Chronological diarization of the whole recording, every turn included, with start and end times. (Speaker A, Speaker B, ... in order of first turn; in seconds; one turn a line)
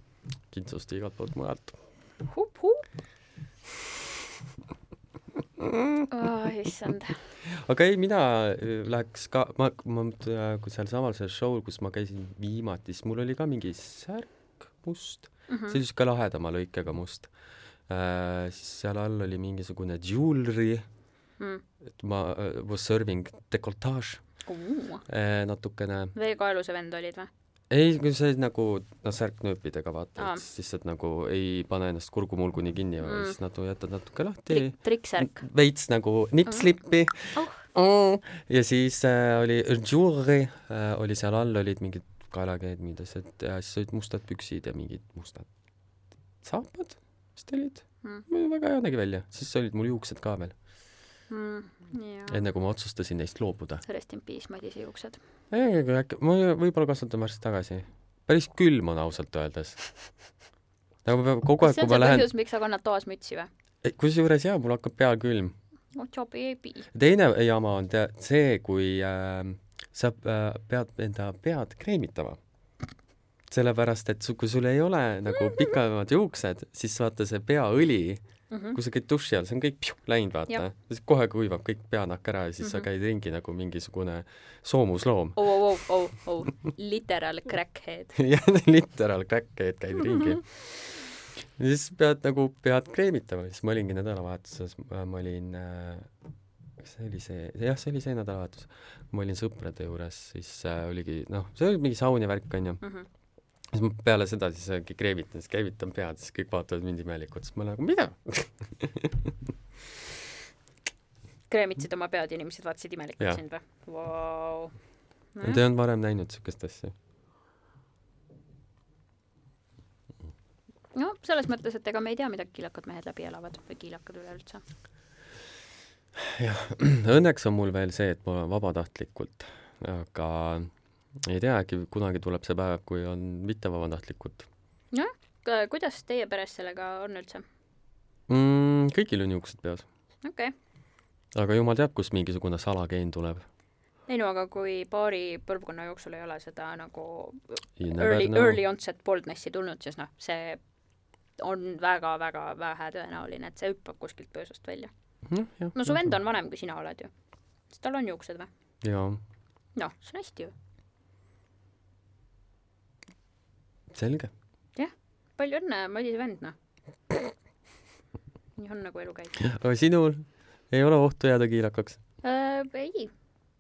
Speaker A: 0.5-1.8
Speaker B: 2.3-2.9
Speaker A: 5.6-6.0
Speaker B: 6.1-7.2
Speaker A: 7.5-20.9
Speaker B: 15.5-15.8
Speaker A: 21.9-24.5
Speaker B: 24.4-25.1
Speaker A: 25.1-26.1
Speaker B: 26.1-27.3
Speaker A: 27.7-50.6
Speaker B: 30.2-30.4
Speaker B: 33.0-33.4
Speaker B: 34.5-35.4
Speaker B: 37.3-37.7
Speaker B: 51.3-52.4
Speaker A: 52.3-53.8
Speaker B: 53.8-55.2
Speaker A: 55.5-60.4
Speaker A: 61.0-62.3
Speaker B: 61.6-63.5
Speaker A: 63.8-65.5
Speaker B: 65.9-66.9
Speaker A: 66.9-72.4
Speaker A: 73.5-85.5
Speaker B: 75.4-75.7
Speaker B: 78.5-78.8
Speaker B: 82.6-82.9
Speaker B: 85.4-88.2
Speaker A: 88.2-96.1
Speaker A: 96.8-102.8
Speaker B: 102.8-103.1
Speaker A: 103.6-109.1
Speaker B: 111.5-114.8
Speaker B: 115.3-115.6
Speaker A: 115.4-116.9
Speaker B: 120.9-124.6
Speaker A: 126.2-134.5
Speaker B: 134.9-137.4
Speaker A: 138.3-139.9
Speaker B: 140.2-140.5
Speaker A: 141.3-143.4
Speaker B: 144.1-150.6
Speaker A: 147.8-148.6
Speaker B: 151.4-154.9
Speaker A: 155.3-156.1
Speaker B: 155.7-158.5
Speaker A: 158.8-159.2
Speaker B: 159.8-160.5
Speaker A: 163.9-164.3
Speaker B: 164.8-166.6
Speaker B: 168.6-169.4
Speaker A: 169.4-172.0
Speaker B: 172.2-173.1